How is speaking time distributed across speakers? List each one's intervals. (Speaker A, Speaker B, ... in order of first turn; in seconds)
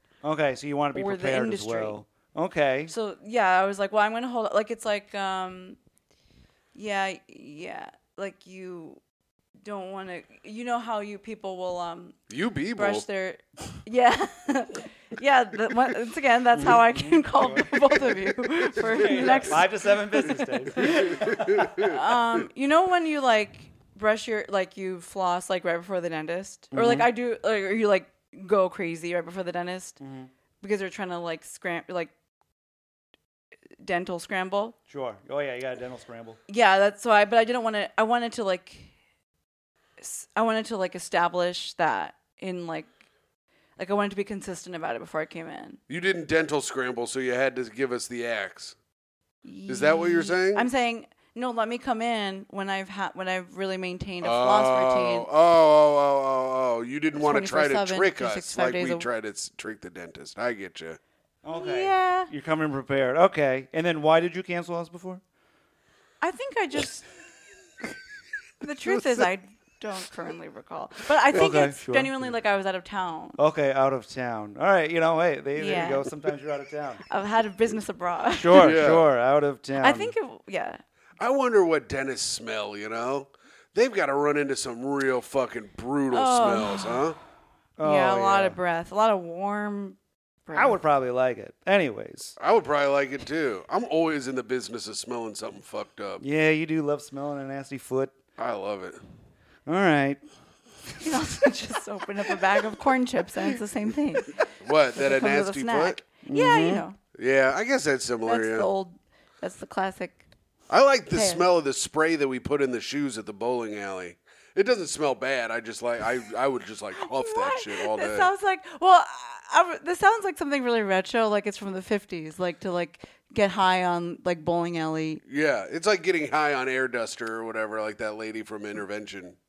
Speaker A: 0.2-2.9, 16.5-17.8, 18.8-21.8, 26.7-27.1, 30.0-30.3, 34.9-36.4, 61.4-65.2, 71.3-72.1, 73.4-77.0, 78.4-80.1, 87.8-88.6, 90.5-92.4, 96.2-98.2, 99.7-100.2, 106.2-106.8
Speaker B: 0.9-2.0, 2.9-5.8, 6.8-9.0, 9.6-12.2, 12.8-30.0, 30.6-32.1, 33.8-34.8, 36.5-38.9, 40.0-42.9, 43.8-45.8, 49.4-55.3, 57.1-59.1, 61.5-62.3, 66.2-67.1, 68.6-73.4, 75.6-76.1, 77.1-78.8, 79.8-80.8, 86.1-87.1, 87.8-90.8, 101.0-104.4, 105.0-107.0, 108.2-110.2, 111.1-111.4, 117.0-125.2
Speaker C: 12.3-13.1, 20.9-22.0, 45.9-48.8, 49.7-50.7, 54.2-61.0, 78.5-79.0, 81.2-87.2, 92.4-96.2, 98.4-99.0, 104.6-106.0, 107.1-108.7, 110.7-118.3, 125.2-129.4